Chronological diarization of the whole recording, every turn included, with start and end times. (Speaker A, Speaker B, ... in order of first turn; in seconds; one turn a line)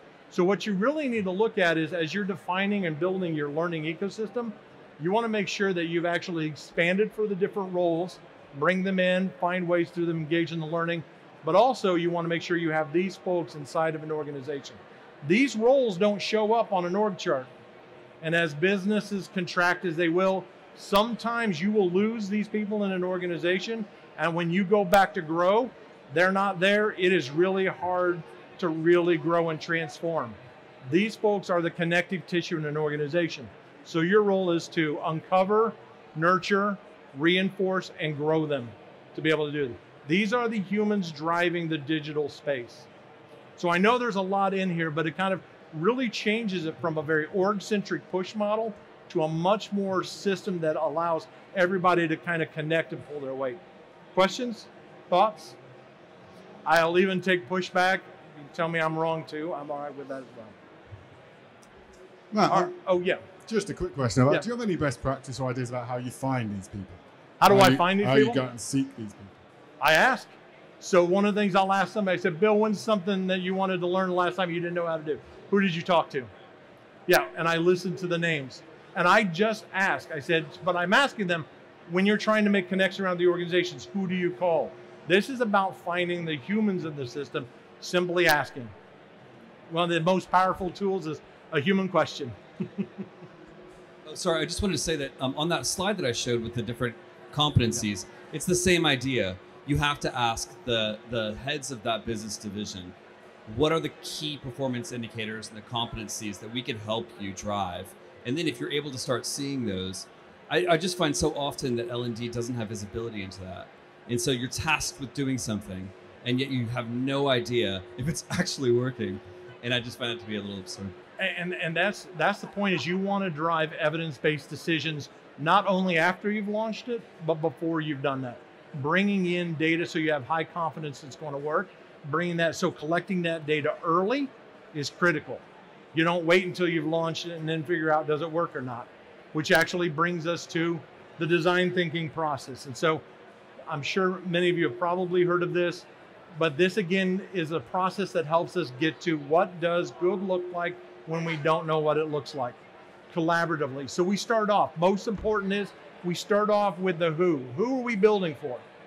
Speaker A: 0.3-17.5
Speaker A: 18.2-30.4
Speaker A: 30.9-42.9
Speaker A: 43.6-53.6
Speaker A: 54.1-55.6
Speaker A: 56.6-60.5
Speaker B: 62.3-62.7
Speaker A: 62.5-63.2
Speaker B: 63.5-69.3
Speaker A: 67.4-68.4
Speaker A: 69.8-76.3
Speaker A: 77.1-88.7
Speaker A: 89.7-92.8
Speaker C: 94.0-102.9
Speaker C: 103.5-120.9
Speaker A: 121.2-135.4
Speaker A: 135.9-143.0
Speaker A: 143.7-152.6
Speaker A: 153.1-158.6